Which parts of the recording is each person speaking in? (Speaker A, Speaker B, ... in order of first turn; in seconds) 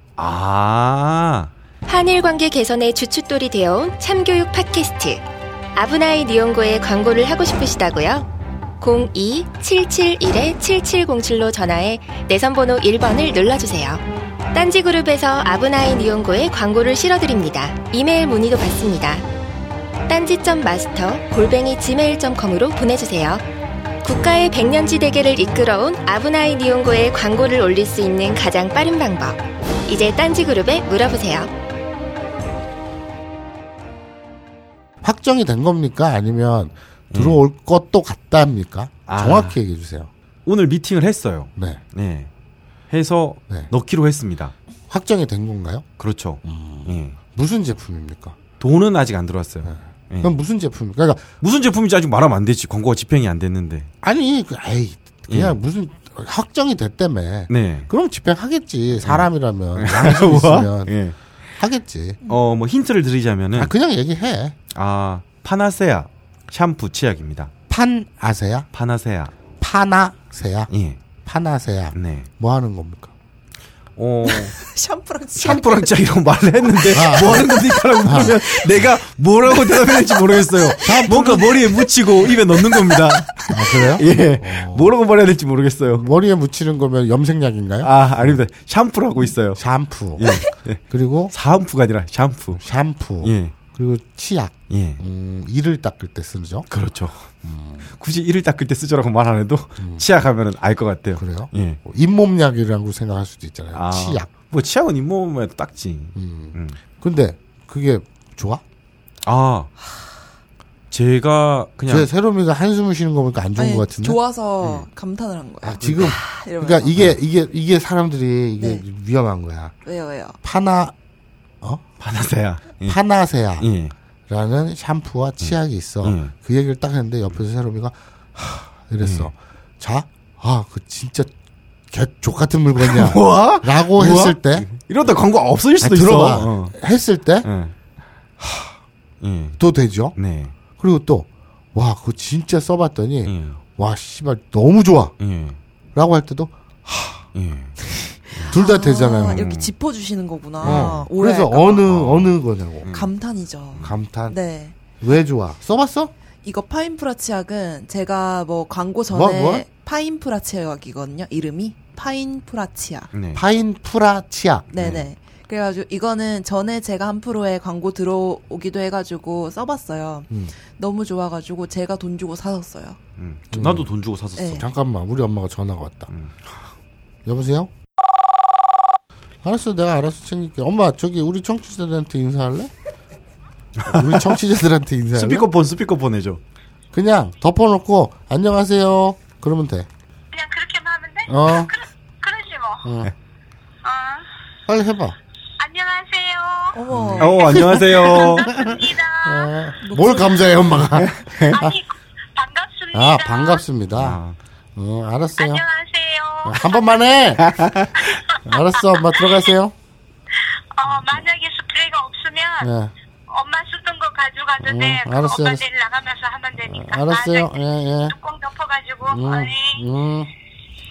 Speaker A: 0.2-1.5, 37.1-37.4, 39.1-39.6, 40.5-42.3, 42.9-44.5, 46.0-47.2, 48.6-50.4, 51.4-53.9, 55.3-55.6, 57.5-57.9, 59.0-61.2, 62.3-63.7, 64.7-67.5, 68.7-69.3, 70.7-71.0, 71.9-72.3, 74.0-74.5, 75.4-86.1, 87.8-89.6, 90.2-92.6, 93.2-93.6, 94.7-95.0, 96.7-97.3, 97.9-101.8, 103.7-106.8, 109.2-109.7, 110.9-112.1, 115.8-116.2, 122.0-123.0, 123.6-123.9, 125.4-126.3, 129.0-129.3, 132.8-136.8, 137.4-137.7, 139.2-139.6, 140.2-140.5, 143.3-143.6, 145.2-145.6, 147.3-147.8, 149.2-149.7, 150.6-151.1, 151.9-153.1, 163.1-163.4, 164.7-165.1, 173.2-174.7, 176.1-176.5, 183.8-184.3, 185.1-186.4, 197.2-198.8, 200.9-201.7, 203.9-204.4, 207.4-208.2
Speaker B: 1.9-5.2, 5.8-8.3, 8.8-14.0, 14.5-19.2, 20.1-23.4, 24.0-31.5
Speaker C: 35.0-40.1, 41.6-41.8, 44.9-45.9, 46.4-48.4, 49.6-51.3, 54.0-61.0, 61.6-62.2, 63.5-64.6, 67.7-68.7, 69.6-70.7, 71.2-73.1, 76.9-78.4, 80.8-81.5, 83.5-85.0, 85.9-88.4, 89.6-90.4, 90.9-91.3, 92.5-96.7, 97.4-97.9, 99.8-100.0, 101.2-104.3, 106.2-108.6, 111.9-114.2, 115.6-119.7, 120.4-121.0, 122.8-123.7, 124.3-131.3, 131.9-134.7, 135.8-137.5, 138.4-138.8, 139.6-140.2, 140.8-145.2, 145.9-147.3, 148.5-149.5, 150.6-152.9, 153.8-154.4, 155.0-156.1, 159.1-159.7, 163.3-164.7, 173.5-173.9, 174.5-176.1, 177.2-177.7, 179.4-182.7, 183.9-185.5, 186.9-189.9, 191.3-191.8, 192.8-193.1, 194.7-195.2, 196.9-201.8, 202.9-204.2, 204.8-205.6, 206.4-207.9, 208.4-209.7, 212.6-212.9, 214.6-215.7, 216.6-218.2, 219.1-220.3
Speaker D: 74.2-75.9, 76.9-78.7, 79.7-83.3, 113.6-117.1, 118.6-118.9, 119.8-120.4, 148.0-151.9, 152.9-154.8, 156.4-163.1, 164.7-173.0, 174.4-174.7, 196.7-198.2, 199.8-200.5
Speaker E: 190.3-192.9, 193.8-194.3, 195.6-196.8, 197.4-197.6, 198.2-199.5, 201.4-203.6, 205.4-207.0, 210.8-212.7, 213.3-219.8